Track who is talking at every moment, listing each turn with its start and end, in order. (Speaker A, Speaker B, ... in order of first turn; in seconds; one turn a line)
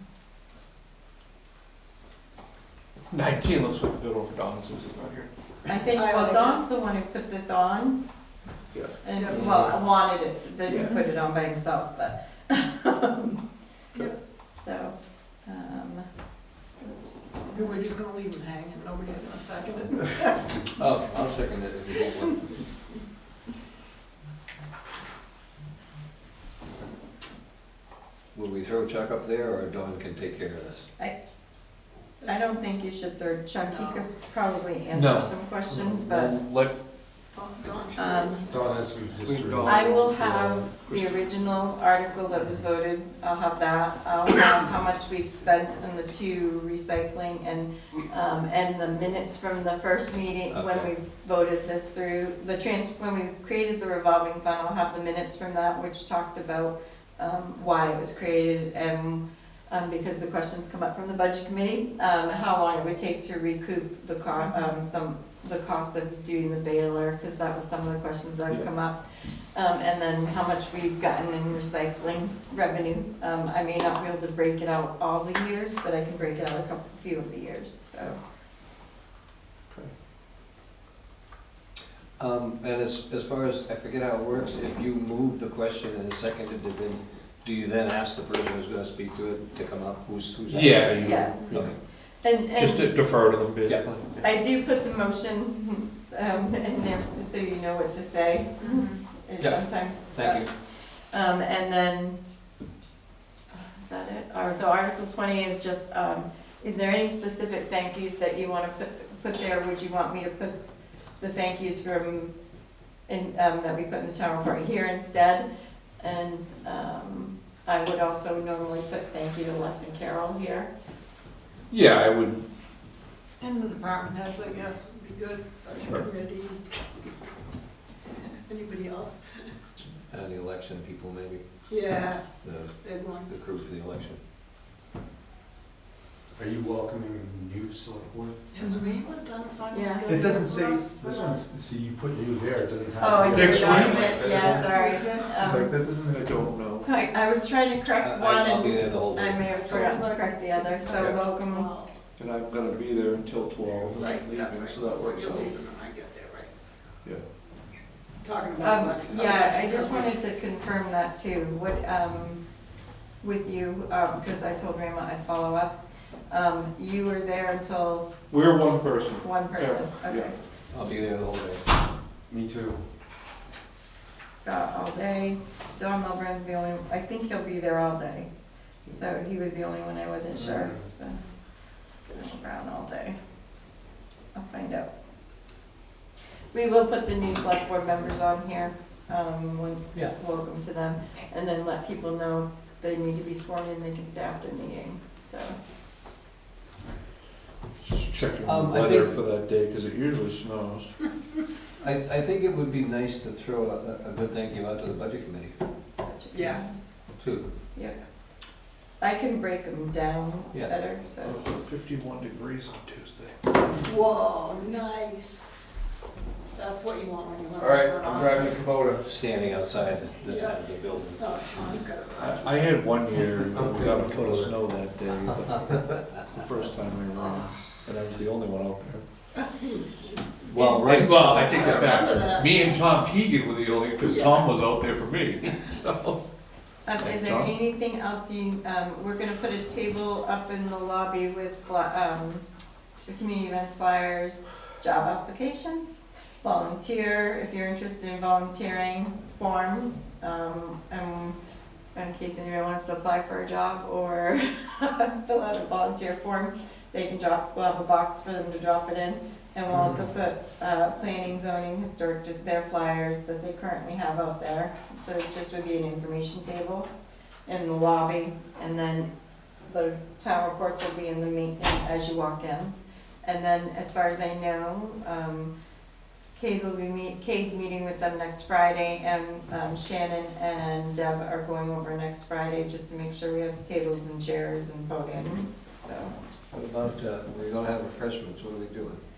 Speaker A: 3.1-5.3
Speaker B: 5.7-8.0
Speaker C: 5.9-6.6
Speaker B: 9.0-13.4
Speaker C: 9.2-9.5
Speaker D: 9.3-9.8
Speaker A: 10.7-10.9
Speaker B: 14.5-16.1
Speaker B: 16.8-17.7
Speaker C: 17.5-20.5
Speaker D: 20.8-22.6
Speaker D: 28.3-30.9
Speaker B: 32.2-36.4
Speaker C: 33.6-34.0
Speaker A: 34.9-36.8
Speaker C: 37.3-38.7
Speaker B: 38.0-38.4
Speaker E: 38.5-40.7
Speaker A: 39.2-41.3
Speaker B: 39.6-78.2
Speaker D: 50.5-50.9
Speaker D: 82.2-91.8
Speaker A: 90.5-91.8
Speaker B: 91.0-91.7
Speaker B: 92.2-93.0
Speaker A: 92.5-94.3
Speaker D: 93.7-93.9
Speaker B: 94.2-100.5
Speaker C: 98.6-99.0
Speaker D: 99.4-100.5
Speaker B: 101.1-102.2
Speaker B: 103.6-110.6
Speaker B: 111.2-112.3
Speaker B: 113.1-115.5
Speaker B: 116.0-120.7
Speaker A: 121.7-122.5
Speaker C: 123.4-126.8
Speaker C: 128.5-129.4
Speaker D: 130.1-131.4
Speaker C: 131.7-133.3
Speaker D: 132.4-132.7
Speaker D: 133.3-134.2
Speaker E: 136.3-138.4
Speaker C: 138.5-141.4
Speaker B: 139.7-140.1
Speaker E: 140.1-146.5
Speaker B: 143.0-145.8
Speaker A: 143.3-144.3
Speaker C: 144.4-145.1
Speaker A: 146.1-146.9
Speaker B: 146.8-151.7
Speaker D: 148.0-150.0
Speaker C: 149.6-151.9
Speaker A: 152.2-155.6
Speaker C: 153.9-156.5
Speaker C: 158.2-160.2
Speaker B: 158.6-162.4
Speaker B: 163.2-165.8
Speaker B: 166.3-168.1
Speaker A: 168.3-170.3
Speaker B: 169.2-170.4
Speaker D: 170.7-171.7
Speaker E: 172.3-172.8
Speaker B: 174.3-178.3
Speaker B: 178.9-181.2
Speaker E: 180.4-180.8
Speaker B: 182.1-183.2
Speaker B: 184.3-184.9
Speaker B: 186.5-195.6
Speaker A: 197.8-200.9
Speaker D: 198.4-199.1
Speaker D: 201.8-205.6
Speaker B: 206.0-206.7
Speaker C: 206.3-206.6
Speaker D: 207.2-207.5
Speaker B: 209.0-211.4
Speaker A: 211.2-213.4
Speaker C: 213.8-215.4
Speaker C: 216.5-218.6
Speaker D: 217.6-221.8
Speaker E: 218.8-219.0
Speaker C: 220.2-222.6
Speaker A: 222.2-229.0
Speaker E: 223.4-224.6
Speaker B: 227.2-227.6
Speaker D: 230.4-231.8
Speaker C: 230.6-232.9
Speaker A: 230.8-236.2
Speaker C: 234.0-234.5
Speaker B: 236.9-242.4
Speaker A: 237.0-237.5
Speaker B: 243.1-251.4
Speaker B: 251.9-266.9
Speaker B: 267.5-269.1
Speaker B: 269.7-275.5
Speaker B: 276.4-286.1
Speaker D: 286.5-289.0